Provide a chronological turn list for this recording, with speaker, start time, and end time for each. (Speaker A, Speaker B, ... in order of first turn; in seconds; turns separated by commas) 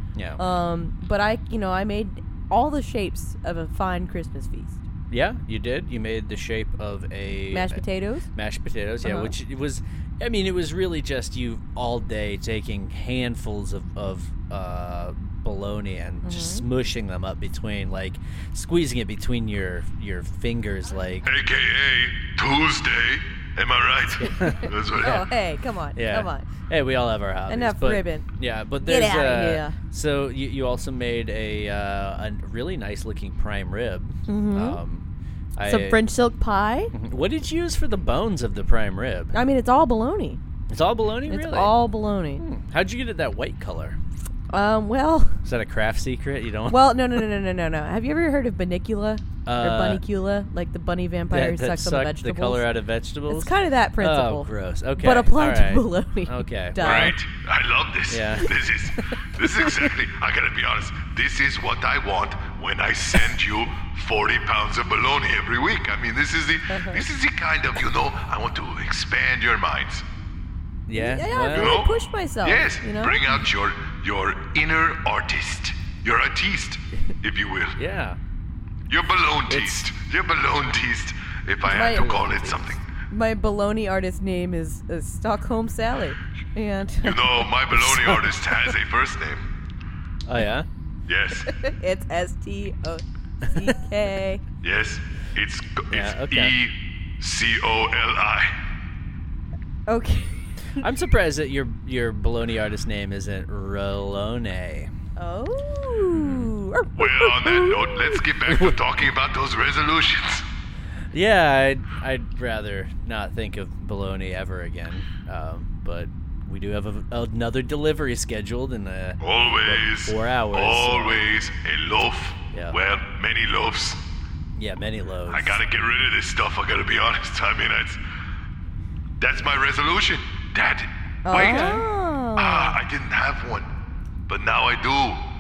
Speaker A: 0.1-0.4, Speaker B: 0.4-4.8, Speaker A: 5.1-7.8, Speaker B: 7.5-8.3, Speaker A: 8.3-21.3, Speaker B: 9.0-9.3, Speaker B: 16.2-16.7, Speaker C: 21.2-25.3, Speaker A: 24.2-25.3, Speaker B: 24.9-26.5, Speaker A: 25.9-36.0, Speaker B: 27.5-28.3, Speaker B: 28.8-29.8, Speaker B: 34.3-34.8, Speaker B: 35.6-36.9, Speaker A: 36.9-39.4, Speaker B: 39.3-40.4, Speaker A: 40.7-41.8, Speaker B: 41.3-42.4, Speaker A: 42.4-44.0, Speaker B: 44.5-45.4, Speaker A: 45.4-47.0, Speaker B: 46.7-52.7, Speaker A: 49.5-50.0, Speaker A: 51.3-57.2, Speaker B: 53.3-57.2, Speaker C: 56.8-70.0, Speaker A: 58.1-58.6, Speaker B: 66.7-67.0, Speaker A: 70.9-71.8, Speaker B: 70.9-73.3, Speaker C: 71.5-77.8, Speaker A: 77.8-78.2, Speaker C: 78.9-82.8, Speaker A: 79.5-79.8, Speaker B: 81.7-82.5, Speaker A: 81.7-82.6, Speaker B: 83.1-87.5, Speaker C: 87.0-89.5, Speaker A: 87.7-88.4, Speaker A: 90.3-90.7, Speaker C: 91.1-91.5, Speaker B: 91.4-94.4, Speaker C: 94.6-98.5, Speaker A: 95.9-96.6, Speaker B: 99.9-100.8, Speaker A: 100.8-104.9, Speaker B: 105.2-108.2, Speaker A: 106.1-106.5, Speaker C: 107.0-110.5, Speaker A: 108.4-108.8, Speaker A: 111.1-121.2, Speaker C: 119.2-124.0, Speaker A: 122.5-122.8, Speaker A: 124.6-125.6, Speaker C: 125.3-128.0, Speaker C: 129.2-131.8, Speaker B: 131.2-132.8, Speaker A: 131.3-131.8, Speaker C: 132.4-133.7, Speaker C: 134.3-135.2